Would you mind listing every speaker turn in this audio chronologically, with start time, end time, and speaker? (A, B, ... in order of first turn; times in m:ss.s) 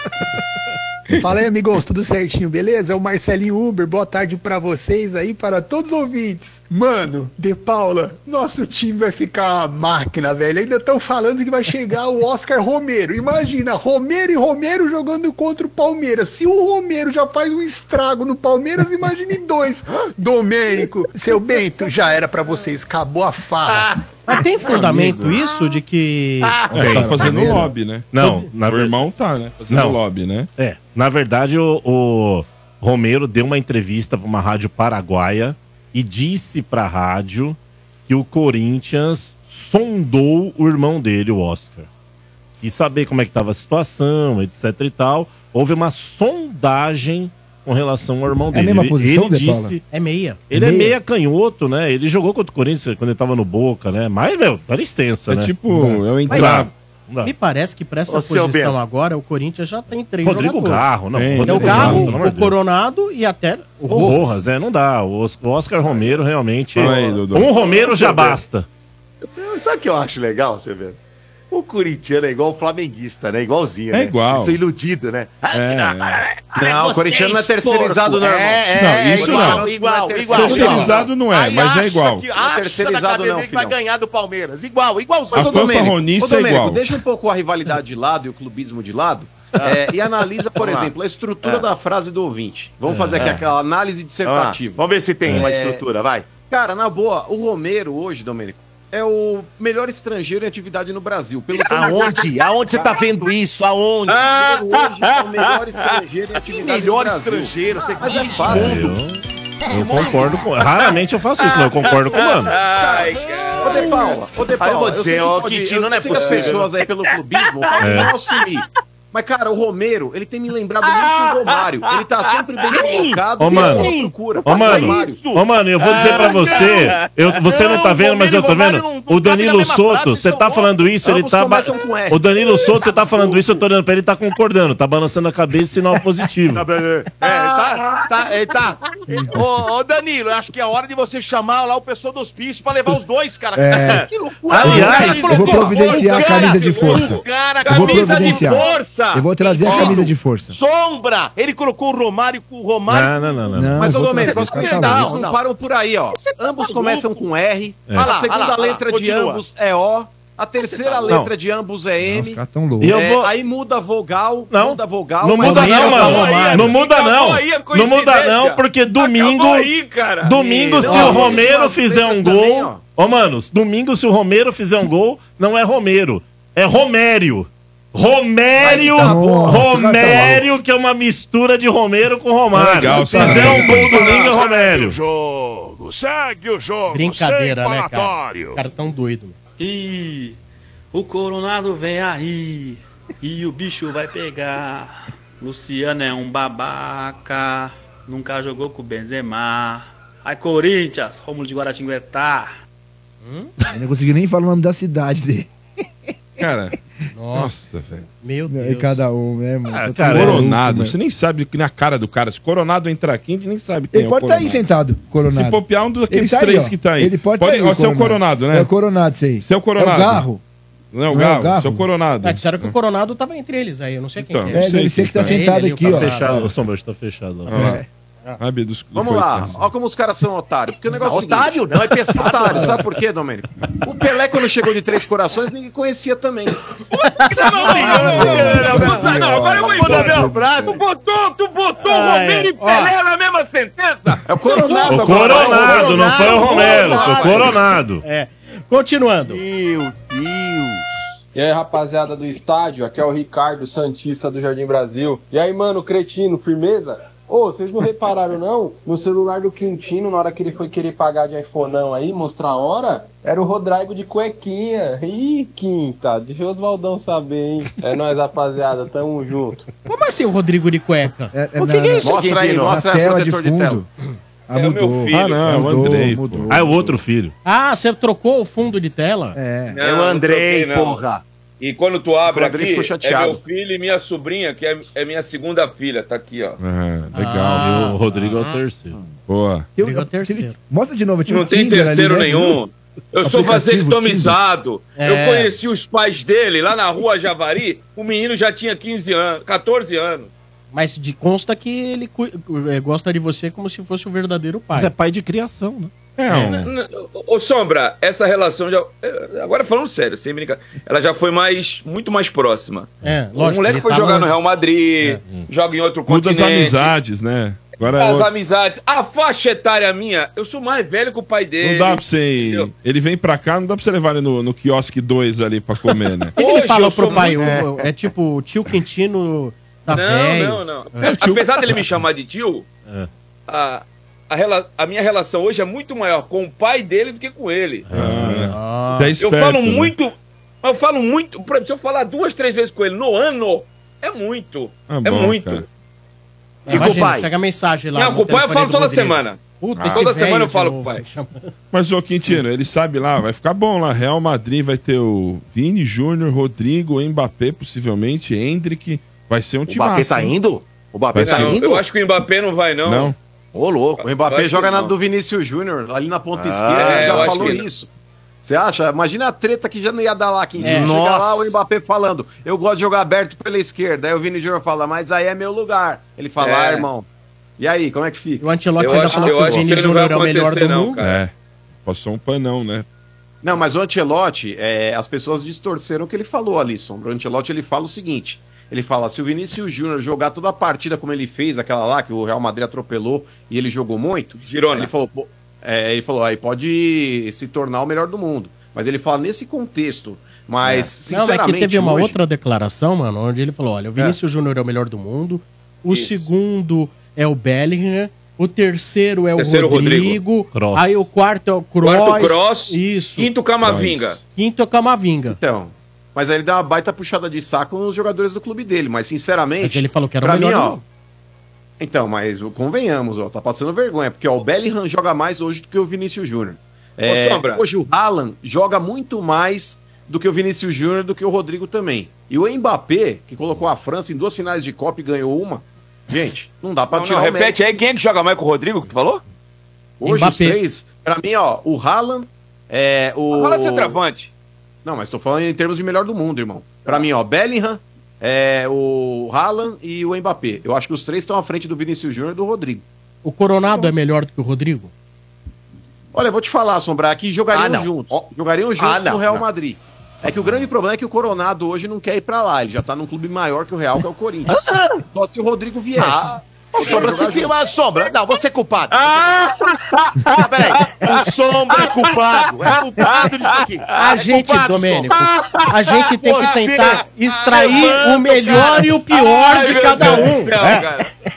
0:01.1-0:23.9 A
0:24.3-0:26.6 B
0:24.7-0:25.4 C
0:26.7-0:27.7 D
0:26.7-0:30.5 C
0:26.7-0:27.2 E
0:28.1-0:29.0 E
0:29.7-0:30.0 E
0:30.6-0:41.9 E
0:42.6-0:49.8 E
0:48.5-0:49.8 D
0:49.9-0:50.4 B
0:50.5-0:55.5 E
0:50.5-0:51.0 D
0:55.3-0:56.7 C
0:55.7-0:56.0 D
0:56.3-0:56.7 B
0:56.3-0:57.3 E
0:57.2-1:00.9 B
0:58.1-0:58.8 F
1:00.2-1:02.6 E
1:01.1-1:02.1 C
1:01.4-1:04.4 B
1:03.9-1:08.7 E
1:06.7-1:07.6 C
1:07.6-1:08.4 F
1:09.3-1:11.0 F
1:11.5-1:25.9 F
1:13.9-1:14.6 C
1:15.5-1:16.2 C
1:16.6-1:21.1 G
1:18.8-1:19.6 C
1:20.3-1:22.3 C
1:22.3-1:23.7 G
1:25.3-1:35.7 G
1:25.3-1:26.9 C
1:29.6-1:31.7 F
1:32.9-1:33.4 E
1:33.2-1:33.5 F
1:34.2-1:36.3 F
1:35.4-1:35.8 H
1:36.4-1:43.0 G
1:41.5-1:43.0 H
1:41.7-1:44.2 F
1:44.1-1:46.0 H
1:44.2-1:49.0 G
1:46.5-1:48.9 F
1:48.4-1:52.6 E
1:50.7-1:54.2 H
1:52.6-1:53.1 G
1:53.6-2:05.3 G
1:53.6-1:53.9 F
1:54.6-1:56.7 F
1:56.1-1:58.6 H
1:57.8-1:58.1 E
2:00.8-2:03.0 H
2:02.7-2:06.9 F
2:03.4-2:03.9 E
2:04.4-2:16.6 E
2:05.8-2:07.3 H
2:07.5-2:10.7 F
2:11.0-2:12.2 G
2:12.9-2:13.3 G
2:16.5-2:28.8 F
2:17.2-2:18.3 H
2:23.5-2:30.6 D
2:24.5-2:30.1 H
2:24.5-2:25.2 E
2:29.6-2:33.2 F
2:32.9-2:34.0 E
2:33.5-2:35.1 D
2:33.8-2:46.5 G
2:33.9-2:35.4 F
2:36.7-2:37.0 F
2:38.0-2:39.4 F
2:40.6-2:41.1 F
2:42.0-2:43.0 D
2:42.8-2:43.3 E
2:44.5-2:49.7 E
2:45.4-2:46.7 B
2:45.6-2:51.5 H
2:50.2-3:05.0 E
2:50.4-2:52.8 G
2:50.8-2:51.3 B
2:58.6-2:59.6 G
2:58.6-3:00.5 D
3:02.5-3:04.3 C
3:02.8-3:03.7 B
3:03.4-3:08.6 I
3:06.9-3:09.3 B
3:09.6-3:10.4 J
3:10.9-3:22.5 J
3:23.2-3:23.5 B
3:23.7-3:25.5 D
3:26.4-3:26.8 C
3:27.1-3:27.5 B
3:27.3-3:28.1 C
3:28.2-3:29.0 B
3:28.5-3:31.0 D
3:29.7-3:30.5 E
3:30.1-3:34.6 C
3:33.9-3:40.4 D
3:35.3-3:38.7 C
3:39.4-3:40.2 C
3:40.9-3:42.7 C
3:41.1-3:41.9 D
3:42.2-3:46.5 B
3:44.2-3:45.4 C
3:44.5-3:46.5 D
3:45.8-3:47.7 E
3:47.5-3:47.8 C
3:47.5-3:47.8 D
3:48.4-3:49.6 C
3:48.9-3:56.6 G
3:51.0-3:52.8 F
3:56.9-4:07.6 H
3:57.2-3:58.8 B
3:57.6-4:00.7 F
3:57.7-4:00.8 D
4:01.8-4:02.9 B
4:04.3-4:06.5 G
4:04.6-4:07.6 F
4:04.9-4:08.0 E
4:08.0-4:09.4 B
4:09.2-4:11.1 F
4:11.3-4:29.6 K
4:29.9-4:32.0 B
4:31.3-4:33.9 D
4:32.0-4:33.8 G
4:32.0-4:32.8 F
4:34.5-4:37.0 D
4:34.5-4:35.6 H
4:35.1-4:36.5 C
4:36.5-4:37.3 E
4:37.4-4:39.4 B
4:39.3-4:39.8 D
4:39.7-4:41.0 H
4:39.8-4:41.2 F
4:41.6-4:46.6 H
4:42.3-4:43.4 G
4:46.6-4:48.0 C
4:47.1-4:48.0 B
4:47.6-4:49.0 E
4:49.3-4:49.7 C
4:49.8-4:52.6 D
4:49.8-4:50.5 B
4:51.3-5:00.3 H
4:53.2-4:54.4 D
4:55.0-4:55.6 B
5:00.7-5:04.9 B
5:04.7-5:06.5 E
5:06.2-5:06.7 C
5:06.4-5:16.9 H
5:13.0-5:14.4 B
5:15.2-5:15.5 E
5:16.1-5:18.3 C
5:17.9-5:22.7 H
5:21.6-5:26.4 C
5:26.4-5:27.6 H
5:26.4-5:31.2 B
5:27.3-5:27.6 F
5:29.9-5:32.7 H
5:33.5-5:38.0 H
5:37.9-5:38.5 E
5:37.9-5:39.9 C
5:38.1-5:39.1 B
5:39.2-5:45.6 H
5:44.8-5:45.6 C
5:46.6-5:51.5 B
5:46.7-5:47.3 F
5:46.7-5:47.0 H
5:47.9-5:51.0 H
5:51.7-6:00.4 C
5:59.7-6:01.8 F
6:01.1-6:01.6 C
6:01.2-6:03.1 H
6:02.8-6:03.1 C
6:03.5-6:04.0 F
6:04.0-6:04.9 H
6:04.0-6:07.9 G
6:06.3-6:07.6 F
6:06.7-6:07.7 H
6:08.4-6:17.0 G
6:10.6-6:11.6 F
6:10.6-6:10.9 B
6:16.4-6:16.9 H
6:17.6-6:19.7 G
6:18.4-6:21.0 B
6:18.8-6:21.2 H
6:21.0-6:21.3 C
6:21.8-6:22.8 C
6:23.4-6:42.2 G
6:34.4-6:34.9 H
6:40.6-6:53.3 B
6:45.9-6:46.3 H
6:49.4-6:50.2 H
6:50.5-6:51.1 E
6:51.8-6:54.2 H
6:53.6-6:54.1 C
6:54.3-6:55.4 B
6:55.3-7:00.8 G
6:59.6-7:00.8 B
7:01.8-7:17.6 G
7:07.0-7:07.6 H
7:16.9-7:19.2 H
7:20.0-7:24.0 G
7:20.0-7:20.6 B
7:23.3-7:24.3 H
7:24.8-7:32.8 G
7:33.2-7:34.9 B
7:36.1-7:44.6 G
7:37.5-7:38.3 F
7:38.8-7:39.4 F
7:45.1-7:47.5 G
7:45.9-7:49.3 F
7:46.8-7:47.1 H
7:48.9-7:54.0 H
7:50.3-7:55.2 F
7:54.0-8:00.8 B
7:55.1-7:56.6 H
7:56.2-7:57.0 F
7:57.3-8:01.1 H
7:57.6-7:58.0 F